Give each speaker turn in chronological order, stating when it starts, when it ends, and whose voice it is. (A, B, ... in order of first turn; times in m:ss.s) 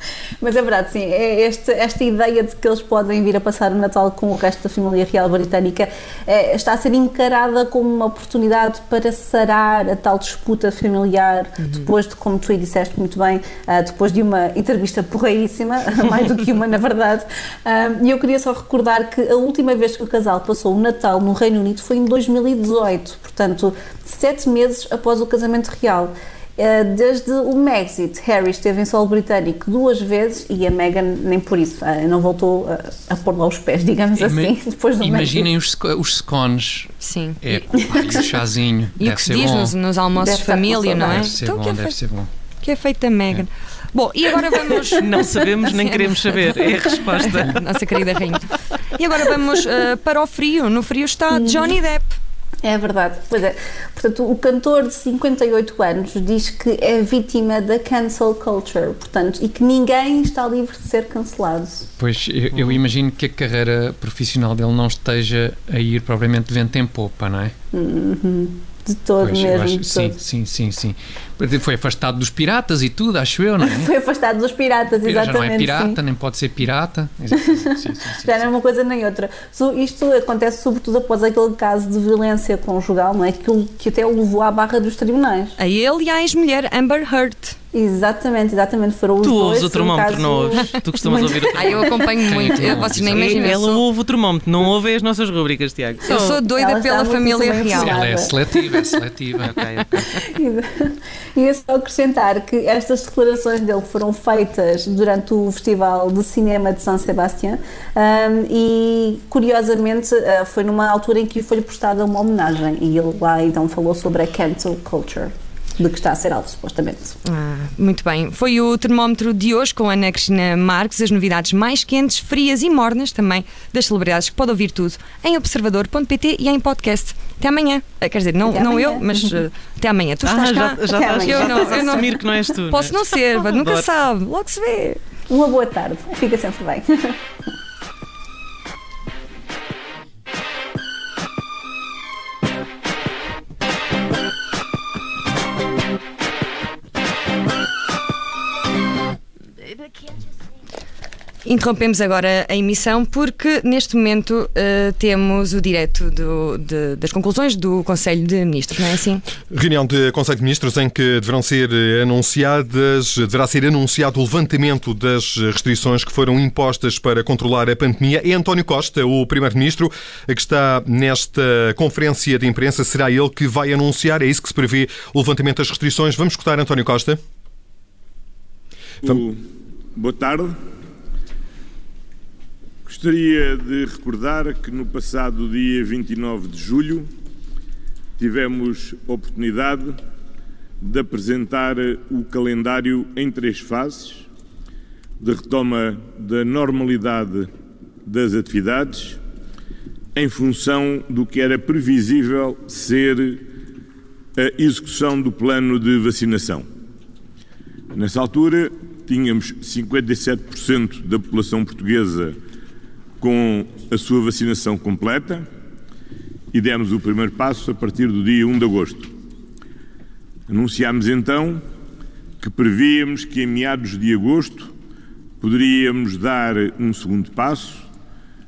0:00.4-0:35.5 A
0:34.2-0:39.7 B
0:37.0-0:37.5 C
0:37.8-0:38.2 A
0:39.0-0:42.0 C
0:40.2-0:41.3 A
0:41.0-0:42.3 B
0:42.6-0:52.1 C
0:44.8-0:47.6 D
0:51.3-0:51.7 A
0:52.6-1:01.9 A
1:02.0-1:07.5 B
1:07.7-1:10.2 A
1:09.2-1:13.9 B
1:13.6-1:16.0 A
1:15.0-1:18.5 B
1:17.3-1:25.5 A
1:25.6-1:27.6 C
1:27.7-1:31.8 A
1:29.2-1:31.7 D
1:31.5-1:33.8 C
1:32.2-1:33.3 B
1:33.0-1:36.4 D
1:36.0-1:38.0 C
1:36.5-1:38.7 A
1:37.7-1:39.6 B
1:39.4-1:40.0 D
1:40.3-1:57.2 A
1:57.2-2:15.0 C
2:08.5-2:09.3 A
2:10.2-2:13.9 D
2:10.8-2:12.1 A
2:15.3-2:17.2 A
2:31.4-2:39.2 C
2:39.5-2:57.2 E
2:59.0-2:59.4 F
2:59.9-3:00.6 F
3:02.8-3:07.1 F
3:08.2-3:10.0 F
3:10.8-3:14.3 F
3:15.2-3:17.5 F
3:18.0-3:19.2 F
3:20.1-3:23.5 F
3:24.4-3:26.7 F
3:27.9-3:32.4 F
3:33.2-3:35.5 F
3:36.5-3:39.1 F
3:40.5-3:41.6 F
3:42.4-3:44.7 F
3:45.4-3:47.9 F